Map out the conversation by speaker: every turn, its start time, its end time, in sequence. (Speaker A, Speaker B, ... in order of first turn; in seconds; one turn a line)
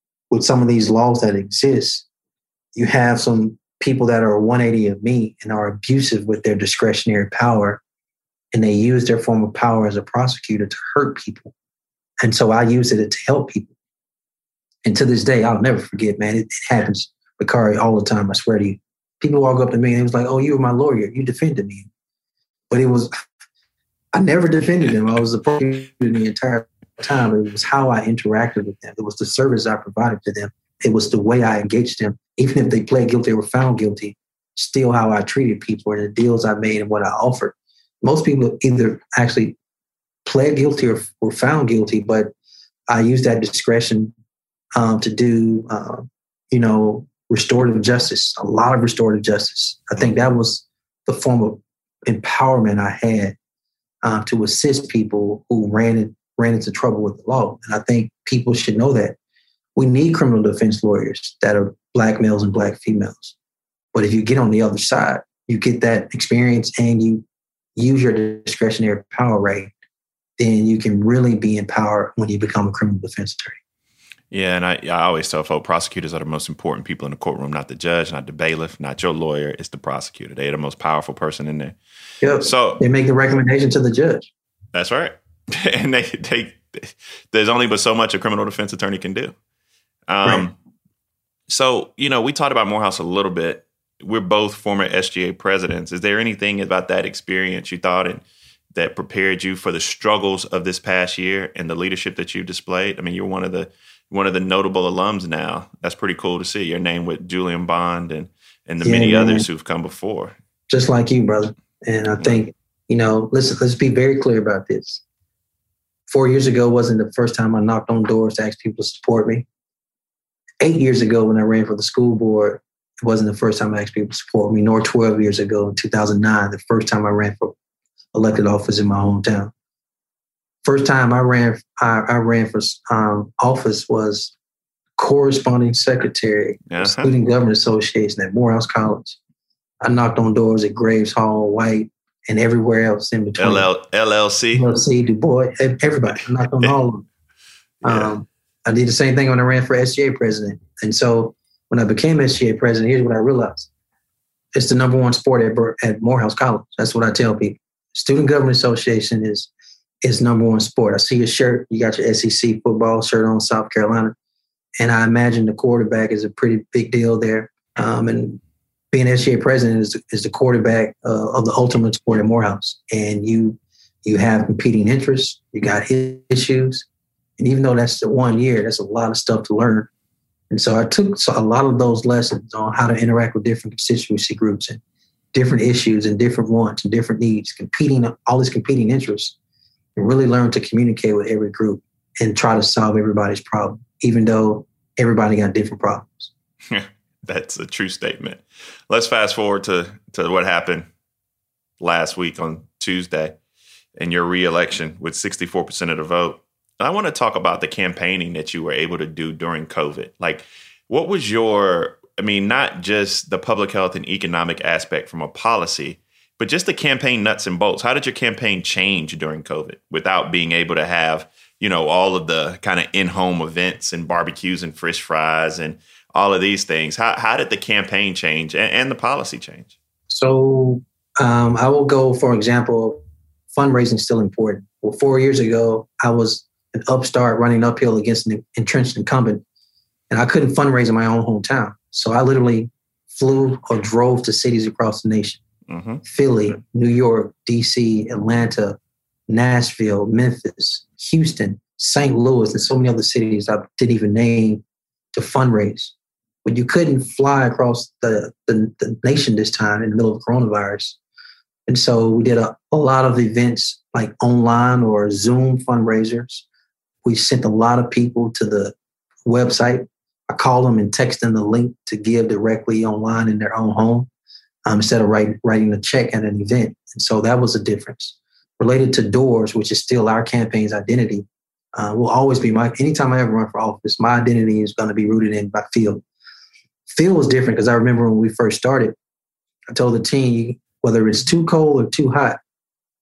Speaker A: 0.3-2.0
Speaker A: 2.8-7.8
Speaker A: 8.5-11.5
Speaker A: 12.2-13.7
Speaker A: 14.8-21.9
Speaker A: 22.7-23.1
Speaker A: 24.1-39.6
Speaker A: 40.2-42.3
Speaker A: 42.9-44.1
Speaker A: 44.7-53.4
Speaker A: 54.0-59.1
Speaker A: 59.8-63.3
Speaker A: 63.9-67.2
Speaker A: 67.8-69.7
Speaker A: 70.4-73.6
Speaker B: 74.3-81.7
Speaker A: 82.2-84.3
Speaker B: 82.5-82.8
Speaker B: 84.8-85.1
Speaker B: 85.7-86.6
Speaker B: 87.3-89.3
Speaker B: 90.1-90.5
Speaker B: 91.5-98.2
Speaker B: 98.8-110.3
Speaker A: 108.8-109.5
Speaker A: 110.7-115.0
Speaker A: 116.1-119.5
Speaker A: 120.6-127.5
Speaker A: 128.1-129.5
Speaker A: 130.6-134.3
Speaker A: 135.0-139.2
Speaker B: 136.7-137.1
Speaker A: 139.8-143.7
Speaker B: 143.4-144.6
Speaker A: 144.5-147.1
Speaker A: 147.8-153.7
Speaker A: 154.5-159.5
Speaker A: 160.0-164.1
Speaker A: 164.8-168.4
Speaker A: 168.9-176.8
Speaker A: 177.4-179.9
Speaker A: 180.5-184.8
Speaker A: 185.3-189.3
Speaker A: 189.9-196.3
Speaker B: 196.7-200.8
Speaker B: 201.8-203.3
Speaker B: 204.0-229.7
Speaker A: 230.1-239.4
Speaker A: 240.1-245.4
Speaker B: 245.7-246.0
Speaker A: 246.0-248.8
Speaker A: 249.3-254.6
Speaker A: 255.1-255.9
Speaker A: 256.4-261.0
Speaker A: 261.7-266.4
Speaker A: 267.0-268.7
Speaker A: 269.2-274.1
Speaker A: 274.6-286.0
Speaker A: 286.9-288.9
Speaker A: 289.7-292.4